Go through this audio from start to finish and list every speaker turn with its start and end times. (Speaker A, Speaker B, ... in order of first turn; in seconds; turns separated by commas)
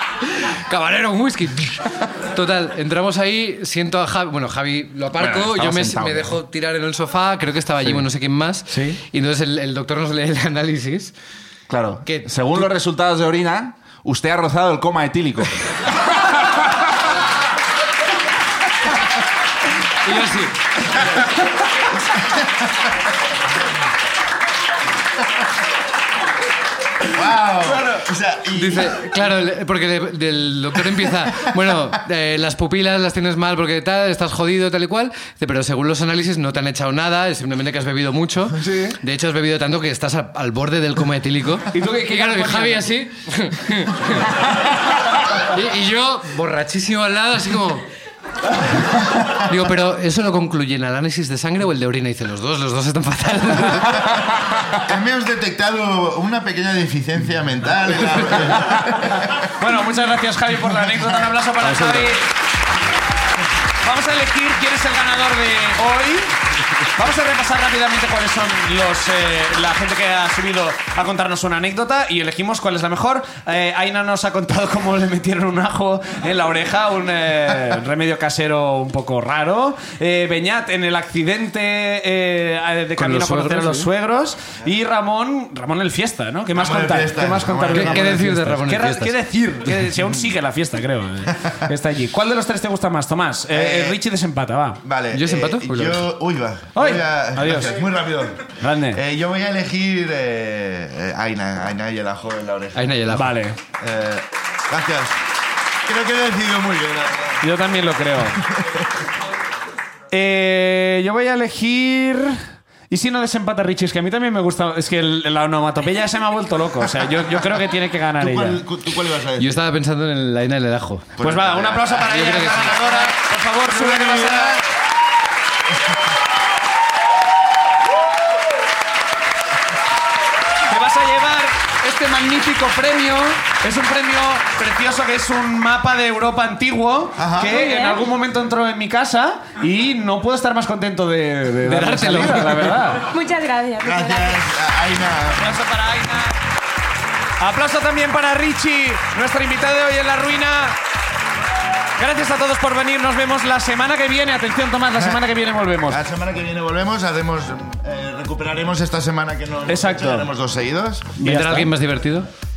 Speaker A: 0.7-11.1, Speaker B: 5.2-6.3, Speaker C: 8.7-8.9, Speaker B: 11.7-15.6, Speaker A: 12.1-12.6, Speaker A: 20.0-21.2, Speaker D: 27.1-29.3, Speaker A: 28.5-44.7, Speaker C: 41.7-42.9, Speaker A: 45.3-47.9, Speaker A: 48.9-54.1, Speaker D: 54.8-59.3, Speaker C: 59.6-62.3, Speaker C: 63.8-66.3, Speaker C: 66.9-94.8, Speaker A: 83.0-83.9, Speaker D: 86.5-88.2, Speaker A: 87.7-89.1, Speaker D: 93.5-94.0, Speaker D: 94.8-103.0, Speaker A: 95.1-96.0, Speaker C: 96.7-97.8, Speaker C: 98.6-99.0, Speaker A: 102.7-103.4, Speaker C: 103.1-103.6, Speaker D: 103.8-105.2, Speaker D: 105.8-107.4, Speaker C: 107.4-108.4, Speaker C: 110.1-118.6, Speaker D: 118.2-119.6, Speaker A: 119.4-121.2, Speaker D: 121.2-123.0, Speaker C: 121.2-124.6, Speaker A: 122.0-122.9, Speaker D: 123.7-124.6, Speaker C: 130.7-143.1, Speaker D: 137.2-137.6, Speaker E: 137.4-138.0, Speaker A: 141.6-142.9, Speaker E: 143.1-144.4, Speaker D: 143.8-145.6, Speaker C: 145.3-146.4, Speaker C: 147.4-150.8, Speaker C: 152.0-156.0, Speaker D: 154.9-155.2, Speaker D: 155.8-161.1, Speaker C: 159.7-160.3, Speaker A: 161.2-162.3, Speaker C: 161.2-161.7